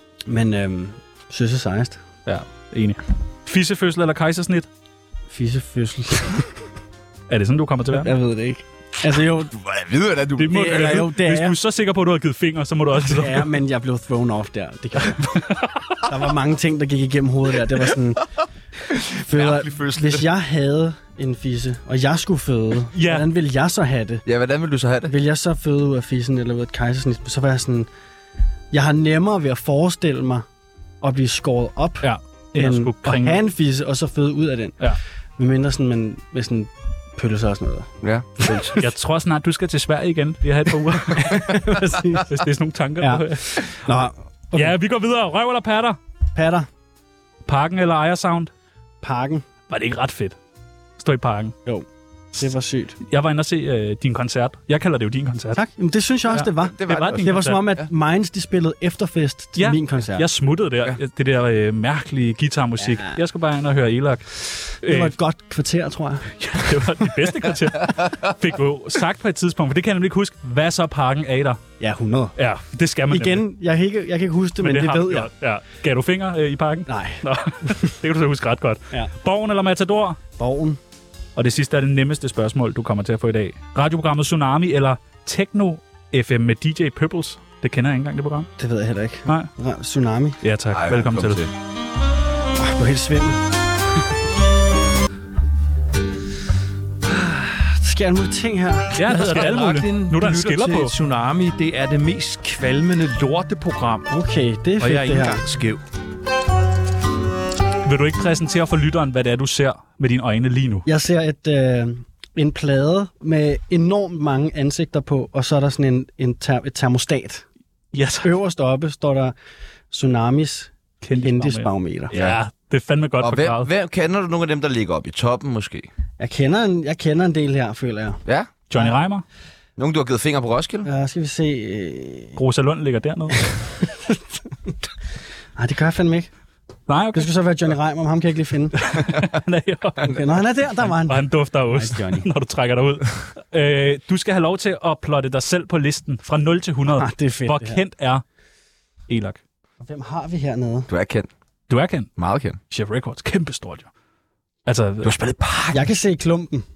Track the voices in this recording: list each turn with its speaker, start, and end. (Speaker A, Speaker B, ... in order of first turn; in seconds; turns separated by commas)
Speaker A: 0.3-2.0, Speaker B: 2.2-4.7, Speaker A: 5.3-6.5, Speaker B: 7.3-8.1, Speaker A: 7.9-9.5, Speaker C: 9.5-11.1, Speaker B: 10.4-13.5, Speaker A: 10.5-11.6, Speaker A: 13.1-18.2, Speaker C: 18.9-20.3, Speaker A: 19.2-24.2, Speaker B: 22.9-23.2, Speaker C: 24.2-25.1, Speaker A: 25.1-27.9, Speaker A: 28.7-30.4, Speaker A: 31.0-34.8, Speaker B: 32.0-33.4, Speaker A: 35.4-37.9, Speaker C: 38.0-38.8, Speaker A: 38.4-38.9, Speaker B: 38.8-46.0, Speaker A: 41.0-42.4, Speaker A: 43.0-44.7, Speaker A: 46.4-46.7, Speaker B: 47.5-48.5, Speaker A: 49.0-49.4, Speaker B: 49.7-50.4, Speaker B: 51.0-51.5, Speaker A: 52.4-53.0, Speaker B: 53.0-55.6, Speaker A: 55.5-60.2, Speaker B: 56.3-57.8, Speaker C: 56.6-57.4, Speaker B: 59.6-65.1, Speaker A: 62.8-63.2, Speaker A: 64.8-66.3, Speaker B: 66.4-71.6, Speaker C: 67.8-68.2, Speaker A: 71.8-72.3, Speaker B: 72.4-73.4, Speaker A: 73.1-75.3, Speaker B: 74.6-80.2, Speaker A: 76.9-77.2, Speaker A: 80.4-80.8, Speaker B: 81.4-88.5, Speaker A: 88.6-90.4, Speaker B: 90.4-91.4, Speaker C: 90.7-91.5, Speaker A: 92.6-93.4, Speaker A: 97.0-99.4, Speaker B: 98.9-100.9, Speaker D: 99.1-104.0, Speaker A: 104.1-105.4, Speaker D: 104.8-105.8, Speaker B: 107.8-110.9, Speaker A: 110.9-117.4, Speaker B: 117.9-118.3, Speaker A: 118.2-119.3, Speaker A: 119.9-122.2, Speaker B: 121.0-123.7, Speaker C: 122.1-122.4, Speaker C: 123.2-125.9, Speaker A: 126.2-128.2, Speaker C: 128.3-128.5, Speaker B: 128.7-129.2, Speaker C: 129.8-130.9, Speaker A: 130.8-132.4, Speaker B: 132.3-133.5, Speaker A: 133.8-134.2, Speaker A: 135.6-136.3, Speaker B: 136.9-137.3, Speaker A: 137.1-138.8, Speaker B: 138.8-148.2, Speaker A: 140.0-142.3, Speaker A: 146.9-147.8, Speaker B: 149.1-149.4, Speaker A: 149.8-150.9, Speaker C: 150.9-151.3, Speaker B: 151.7-152.1, Speaker C: 152.2-152.6, Speaker B: 152.7-153.9, Speaker B: 154.7-155.2, Speaker C: 155.0-155.9, Speaker A: 155.7-156.7